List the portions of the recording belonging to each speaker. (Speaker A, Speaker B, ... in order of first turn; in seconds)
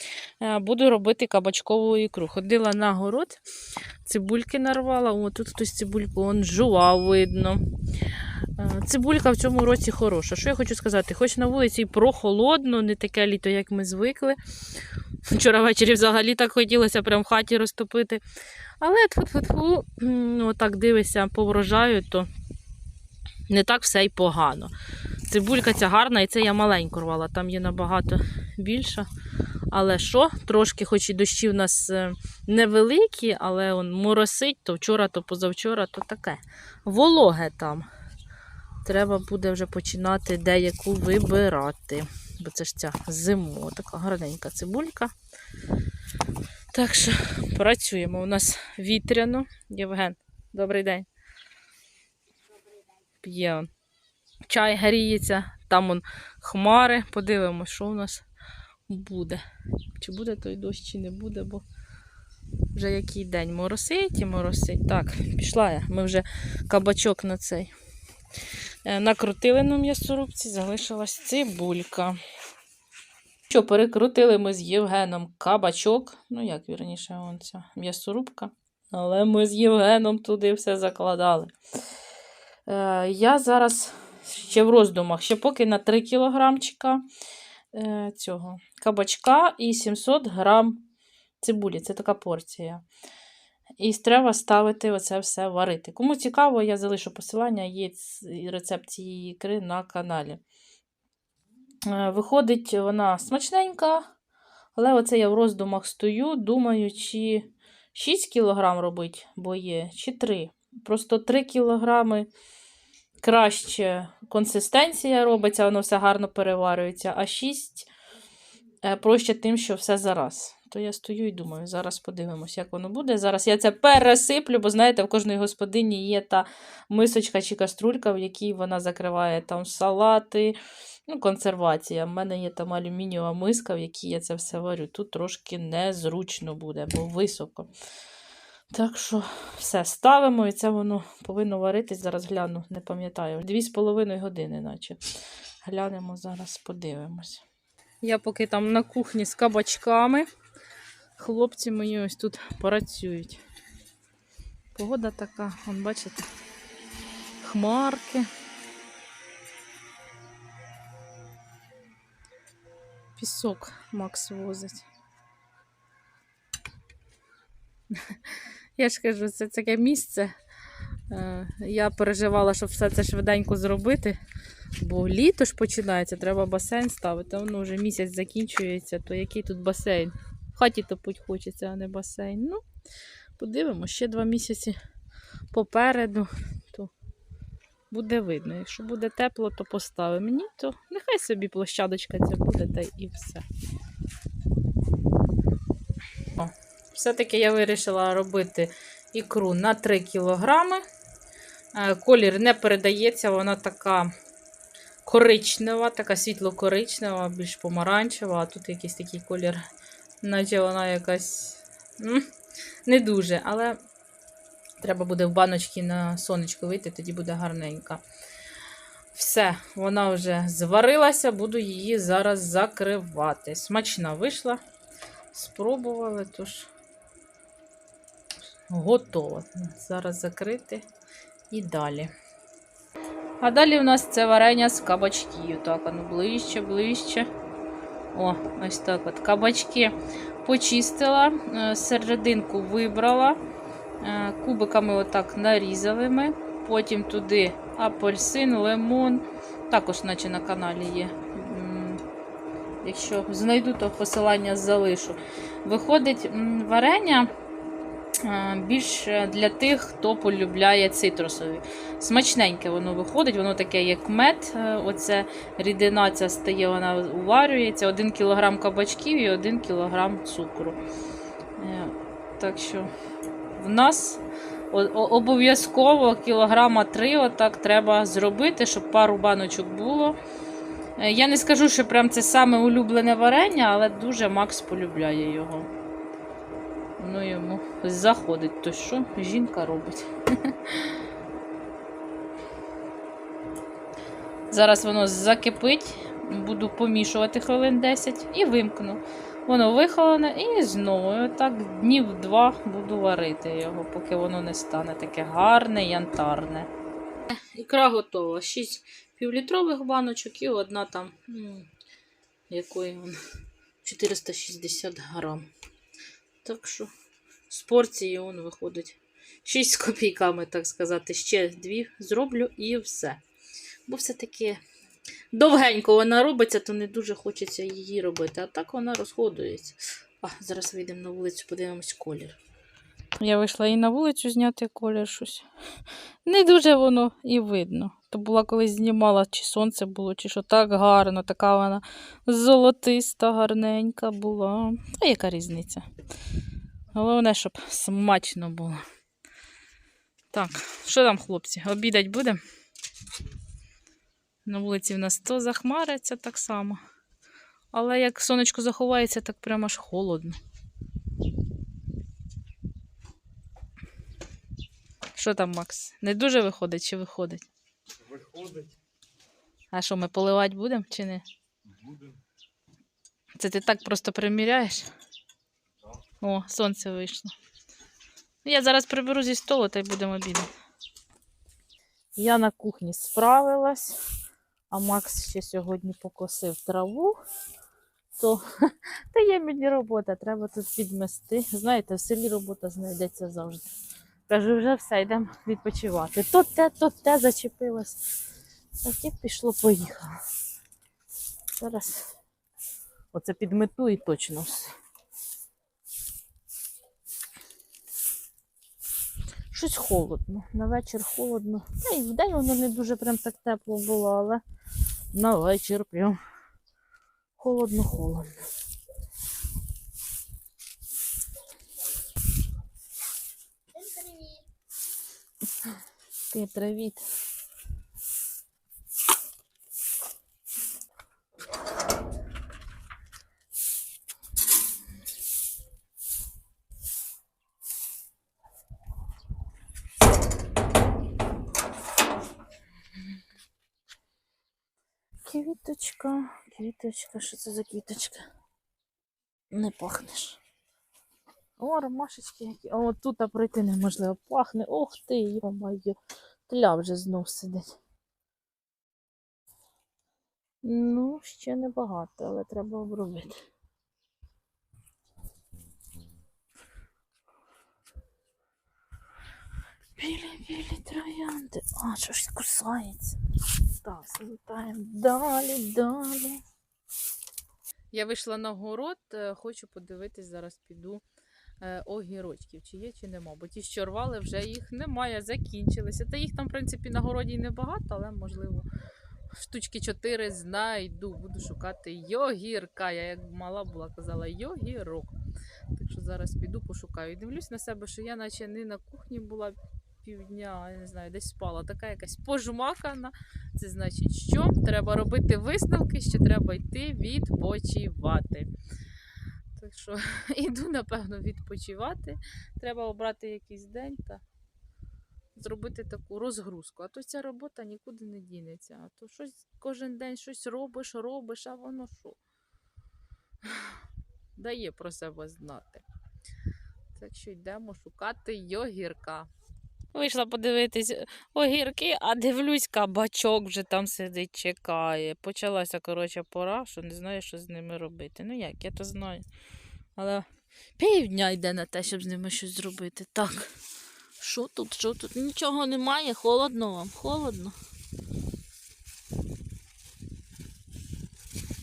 Speaker A: 0.4-3.4, 4.0-18.2, 18.8-22.3, 23.5-24.7, 25.2-29.1, 29.7-37.9, 38.8-45.1, 46.7-51.1, 53.2-53.7, 54.5-58.2, 58.9-59.4, 60.0-61.6, 62.7-67.7, 68.8-72.2, 73.5-81.5, 82.7-87.0, 87.7-90.8, 91.4-92.8, 93.8-100.4, 101.8-104.1, 104.7-112.3, 113.2-117.9, 118.8-137.7, 138.7-145.0, 145.6-147.4, 148.0-150.3, 151.2-153.4, 154.7-156.3, 157.4-158.3, 163.2-164.9, 167.9-170.3, 171.1-174.2, 174.8-182.6, 183.4-184.8, 185.5-186.9, 187.9-193.4, 196.2-200.8, 201.7-204.1, 205.0-209.6, 210.2-212.3, 212.8-213.8, 214.8-218.0, 219.1-224.6, 225.3-226.7, 228.7-230.8, 231.5-232.1, 233.4-237.3, 238.1-243.4, 244.0-252.0, 252.8-257.3, 258.2-270.8, 271.6-272.9, 273.5-280.2, 280.9-285.7, 287.0-291.0, 294.5-306.7, 307.4-311.7, 312.5-313.2, 313.8-315.5, 316.4-316.9, 317.5-323.2, 323.9-324.6, 325.3-332.4, 333.2-335.5, 336.2-345.9, 346.9-348.8, 350.3-352.4, 354.4-356.8, 357.7-360.4, 365.1-367.5, 369.7-371.2, 373.3-374.9, 376.2-377.3, 378.4-380.5, 382.1-384.0, 384.7-387.2, 388.1-393.7, 394.3-398.0, 398.8-400.2, 401.6-402.2, 403.1-404.7, 409.5-414.4, 415.1-416.2, 417.4-418.4, 426.3-427.0, 445.2-448.3, 449.5-450.4, 451.6-457.7, 460.6-463.4, 469.9-473.2, 473.8-476.4, 477.9-481.0, 481.6-488.7, 489.3-495.1, 495.7-508.5, 509.6-514.2, 515.3-522.2, 523.4-523.8, 524.4-525.8, 526.9-529.3, 529.9-539.2, 540.0-543.5, 544.2-547.5